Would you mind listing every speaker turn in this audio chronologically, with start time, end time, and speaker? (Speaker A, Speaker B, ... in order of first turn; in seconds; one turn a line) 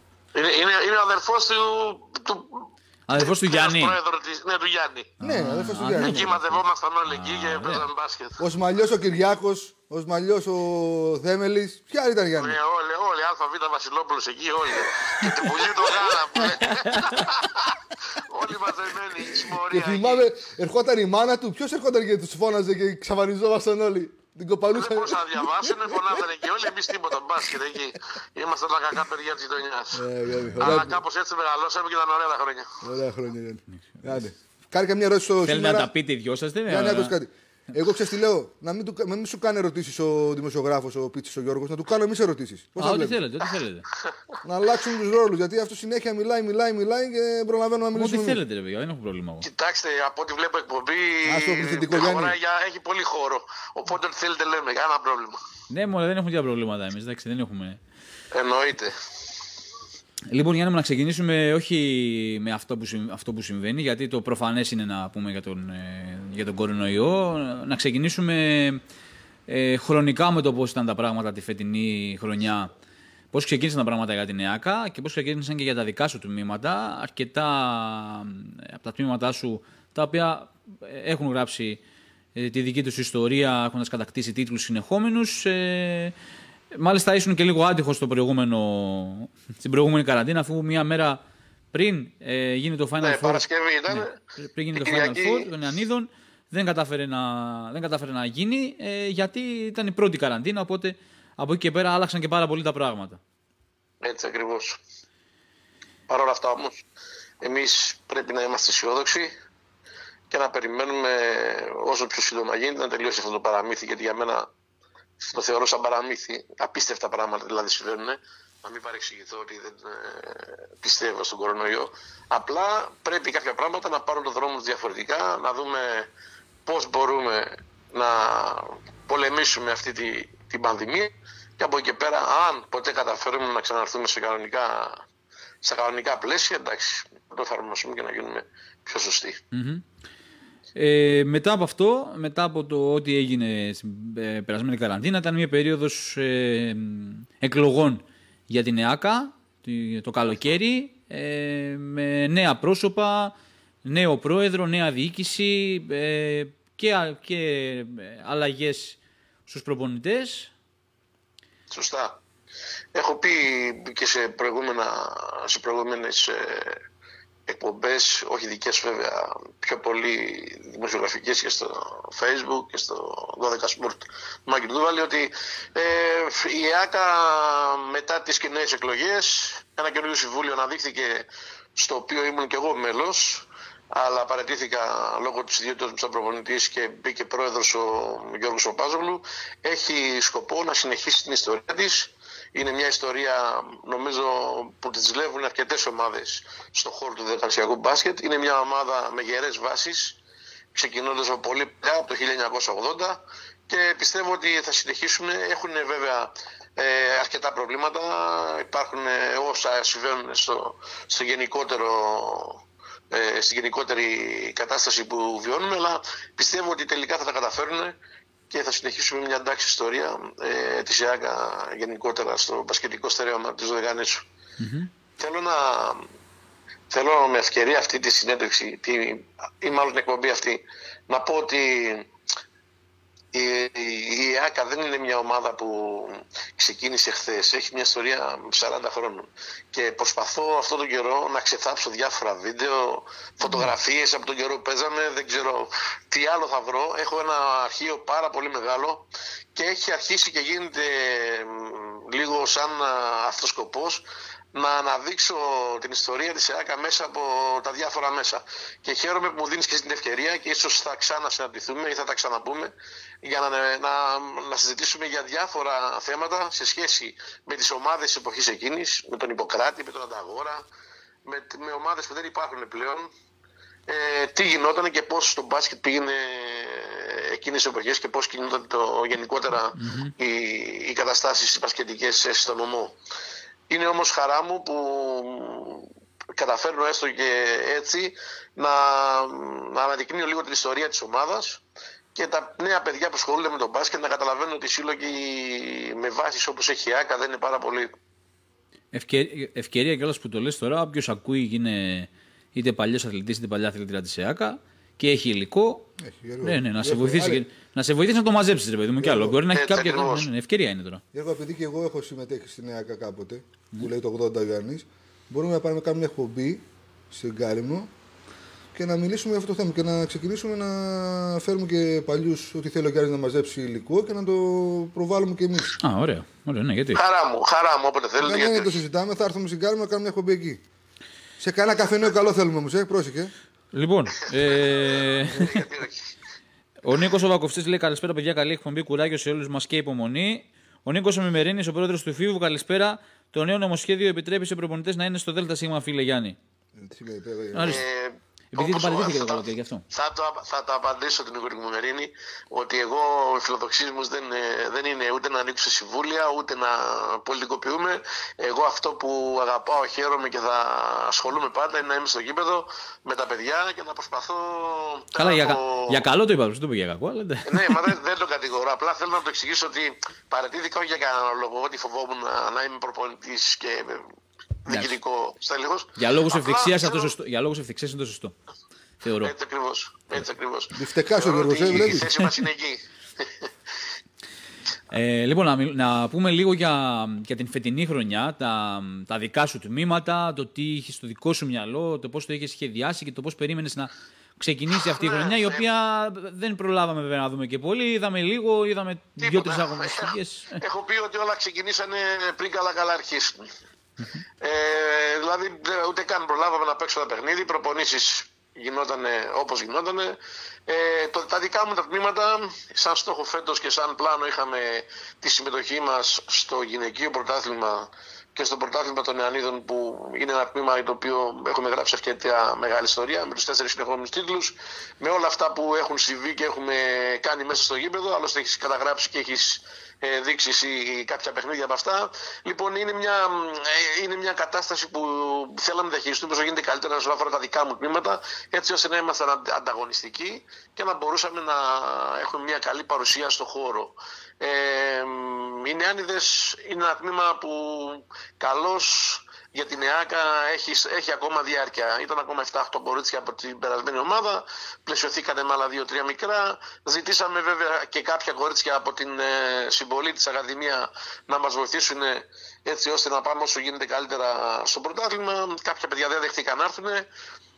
Speaker A: 0.3-5.1
Speaker B: 3.1-4.0
Speaker B: 5.2-6.4
Speaker C: 5.2-6.6
Speaker A: 5.9-8.4
Speaker B: 7.1-7.8
Speaker C: 8.4-12.6
Speaker A: 12.4-20.3
Speaker B: 16.6-17.3
Speaker C: 19.4-26.9
Speaker A: 24.7-30.0
Speaker C: 29.9-31.0
Speaker B: 30.3-30.6
Speaker A: 30.6-32.8
Speaker C: 32.8-35.9
Speaker B: 33.9-34.2
Speaker B: 35.4-37.1
Speaker C: 36.7-43.2
Speaker B: 42.8-43.9
Speaker C: 44.4-48.4
Speaker B: 47.9-49.5
Speaker A: 49.4-55.4
Speaker C: 51.2-52.4
Speaker B: 55.7-57.8
Speaker A: 58.3-58.9
Speaker B: 60.3-68.8
Speaker B: 69.5-72.7
Speaker B: 73.3-81.8
Speaker B: 82.3-86.1
Speaker B: 86.7-91.2
Speaker B: 91.7-103.2
Speaker A: 93.0-94.2
Speaker A: 94.8-95.5
Speaker A: 104.0-104.8
Speaker A: 106.1-106.8
Speaker A: 107.4-109.3
Speaker A: 110.3-114.5
Speaker A: 115.2-126.1
Speaker A: 126.7-135.0
Speaker A: 135.6-139.4
Speaker B: 139.5-139.8
Speaker B: 140.7-160.5
Speaker A: 161.7-162.2
Speaker A: 162.9-166.8
Speaker A: 167.5-200.2
Speaker A: 200.7-217.9
Speaker A: 218.5-224.2
Speaker B: 224.6-224.9
Speaker A: 225.2-226.1
Speaker A: 226.9-232.1
Speaker A: 233.3-270.6
Speaker B: 243.4-243.7
Speaker A: 271.2-273.1
Speaker A: 273.9-282.9
Speaker B: 279.7-280.1
Speaker A: 283.7-291.6
Speaker A: 292.1-297.9
Speaker B: 298.9-305.9
Speaker C: 306.0-307.4
Speaker B: 306.4-311.0
Speaker C: 309.0-309.4
Speaker A: 309.5-310.3
Speaker C: 311.1-317.9
Speaker C: 318.7-325.8
Speaker B: 325.8-327.0
Speaker A: 326.9-328.8
Speaker C: 328.2-330.6
Speaker C: 331.4-333.3
Speaker B: 333.7-335.6
Speaker A: 334.5-336.0
Speaker B: 336.8-346.4
Speaker C: 346.8-347.8
Speaker B: 347.5-347.8
Speaker A: 347.6-366.0
Speaker B: 348.5-349.8
Speaker B: 365.1-367.9
Speaker A: 367.4-374.1
Speaker A: 374.6-377.1
Speaker B: 374.7-375.0
Speaker B: 376.0-378.3
Speaker B: 379.0-379.3
Speaker A: 379.2-383.5
Speaker C: 380.7-382.1
Speaker B: 384.9-400.6
Speaker A: 395.0-395.3
Speaker A: 399.2-403.4
Speaker A: 404.4-467.1